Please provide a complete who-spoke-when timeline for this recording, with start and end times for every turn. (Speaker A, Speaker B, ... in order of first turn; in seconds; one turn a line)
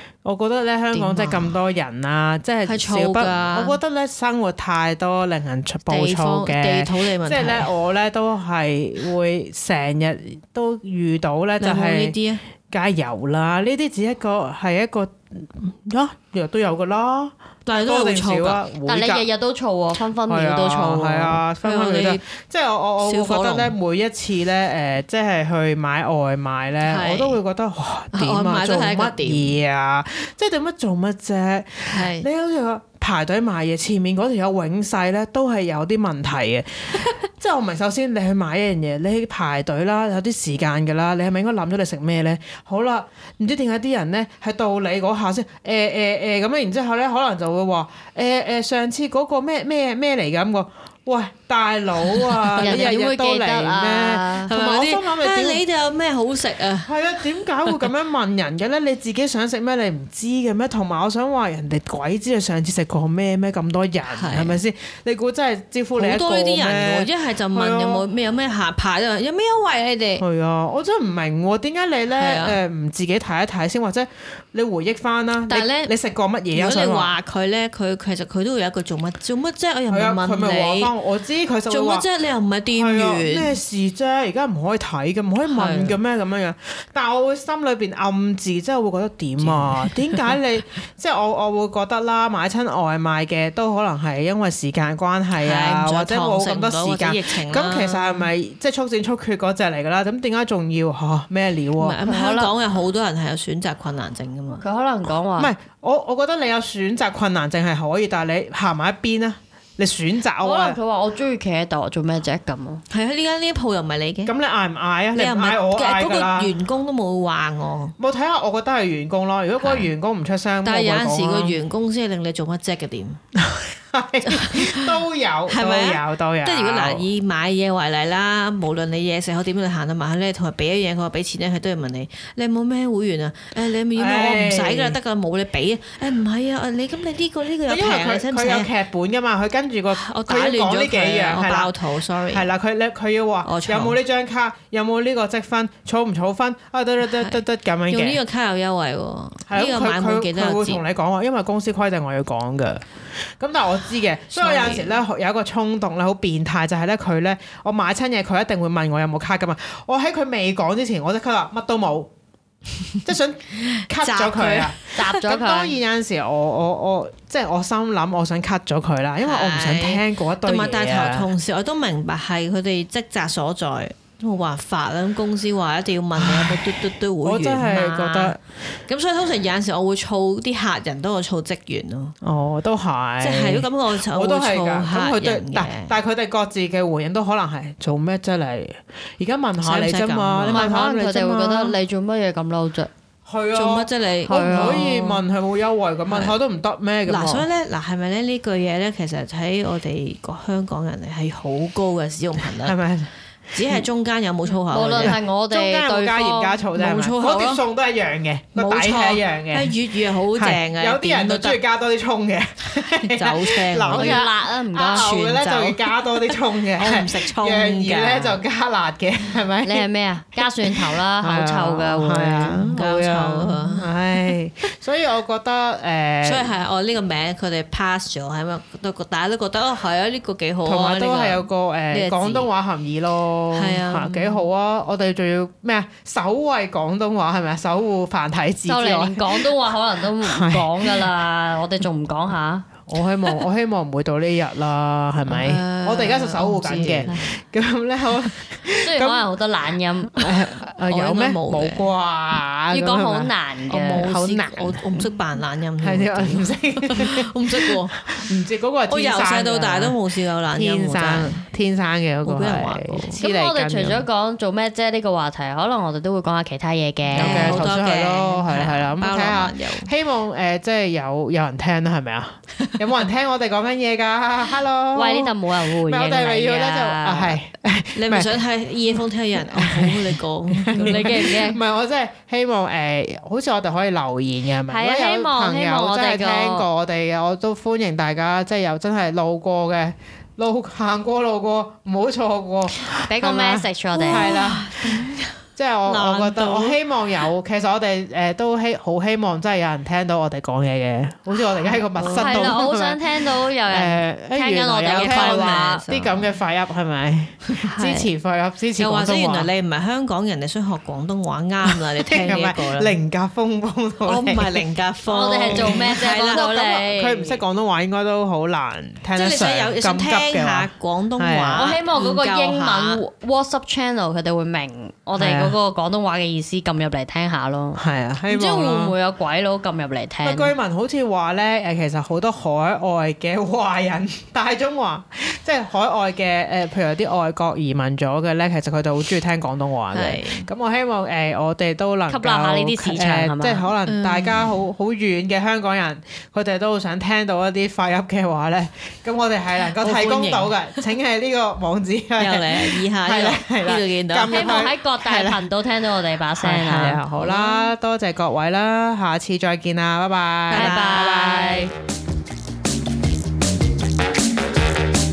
Speaker A: 0.2-12.2
Speaker B: 0.9-1.6
Speaker B: 2.6-3.8
Speaker B: 5.9-7.7
Speaker B: 11.6-12.4
Speaker A: 12.7-19.3
Speaker B: 17.6-18.6
Speaker C: 18.8-21.4
Speaker A: 20.2-55.6
Speaker B: 21.6-22.2
Speaker B: 23.0-23.8
Speaker B: 26.8-27.4
Speaker B: 28.1-29.6
Speaker B: 31.9-32.2
Speaker B: 52.2-52.9
Speaker C: 52.6-54.5
Speaker B: 54.5-56.9
Speaker A: 56.8-68.0
Speaker B: 64.1-64.6
Speaker B: 65.9-70.2
Speaker A: 70.2-77.2
Speaker B: 72.1-72.5
Speaker B: 75.4-75.9
Speaker B: 76.5-80.9
Speaker A: 79.9-82.1
Speaker B: 81.7-83.6
Speaker A: 82.7-102.0
Speaker B: 85.4-86.0
Speaker B: 89.4-90.3
Speaker B: 95.3-98.3
Speaker B: 101.8-104.6
Speaker C: 102.0-102.5
Speaker C: 104.6-105.5
Speaker A: 105.0-110.8
Speaker C: 110.4-112.8
Speaker B: 112.9-114.3
Speaker A: 114.2-116.5
Speaker B: 115.1-117.9
Speaker A: 118.0-121.6
Speaker B: 119.6-119.9
Speaker B: 120.6-123.2
Speaker A: 123.3-127.1
Speaker B: 124.3-124.9
Speaker B: 125.5-138.7
Speaker A: 133.9-135.0
Speaker A: 137.7-148.2
Speaker B: 139.9-142.5
Speaker B: 143.4-144.0
Speaker B: 147.0-150.8
Speaker A: 149.5-162.1
Speaker B: 154.3-155.0
Speaker A: 163.0-171.3
Speaker B: 163.9-165.0
Speaker C: 164.9-165.7
Speaker B: 169.2-182.1
Speaker A: 176.2-176.6
Speaker A: 177.2-178.4
Speaker A: 182.2-191.8
Speaker B: 183.2-186.0
Speaker B: 189.6-190.7
Speaker C: 190.5-192.9
Speaker A: 193.2-197.5
Speaker B: 193.5-195.1
Speaker C: 194.2-195.2
Speaker B: 196.1-196.4
Speaker B: 197.1-202.8
Speaker A: 202.6-203.1
Speaker B: 203.5-205.2
Speaker C: 204.7-206.6
Speaker A: 205.0-226.5
Speaker B: 206.7-207.6
Speaker B: 208.5-211.6
Speaker B: 213.0-214.2
Speaker C: 213.8-215.1
Speaker B: 214.9-218.4
Speaker C: 219.6-222.7
Speaker B: 222.7-224.3
Speaker B: 226.2-232.5
Speaker A: 230.6-239.5
Speaker B: 233.5-234.5
Speaker C: 238.7-242.7
Speaker A: 240.2-241.1
Speaker A: 242.9-249.3
Speaker B: 245.3-247.2
Speaker C: 248.8-250.4
Speaker A: 250.1-255.0
Speaker B: 250.9-251.9
Speaker C: 252.7-254.2
Speaker B: 253.7-258.2
Speaker A: 255.8-260.0
Speaker B: 258.9-261.4
Speaker A: 260.5-264.1
Speaker B: 262.2-263.1
Speaker C: 263.1-267.7
Speaker A: 267.1-278.4
Speaker B: 267.1-269.9
Speaker C: 274.9-277.4
Speaker B: 277.9-281.1
Speaker A: 278.9-295.0
Speaker C: 280.7-281.6
Speaker C: 284.7-286.6
Speaker C: 293.0-294.3
Speaker B: 293.9-296.8
Speaker A: 295.6-309.5
Speaker B: 301.3-302.6
Speaker C: 302.0-305.8
Speaker B: 304.9-306.4
Speaker B: 307.5-308.1
Speaker B: 308.8-313.0
Speaker A: 311.6-314.6
Speaker B: 314.0-316.4
Speaker C: 315.1-317.4
Speaker A: 315.5-321.8
Speaker B: 319.1-323.0
Speaker C: 321.5-330.6
Speaker A: 325.1-325.6
Speaker A: 327.8-328.9
Speaker A: 330.2-355.5
Speaker B: 339.9-340.5
Speaker C: 342.1-343.7
Speaker B: 343.9-344.6
Speaker B: 349.8-350.9
Speaker B: 352.2-354.7
Speaker C: 354.3-357.0
Speaker A: 356.4-361.7
Speaker B: 357.2-357.7
Speaker B: 360.5-361.1
Speaker C: 360.5-361.7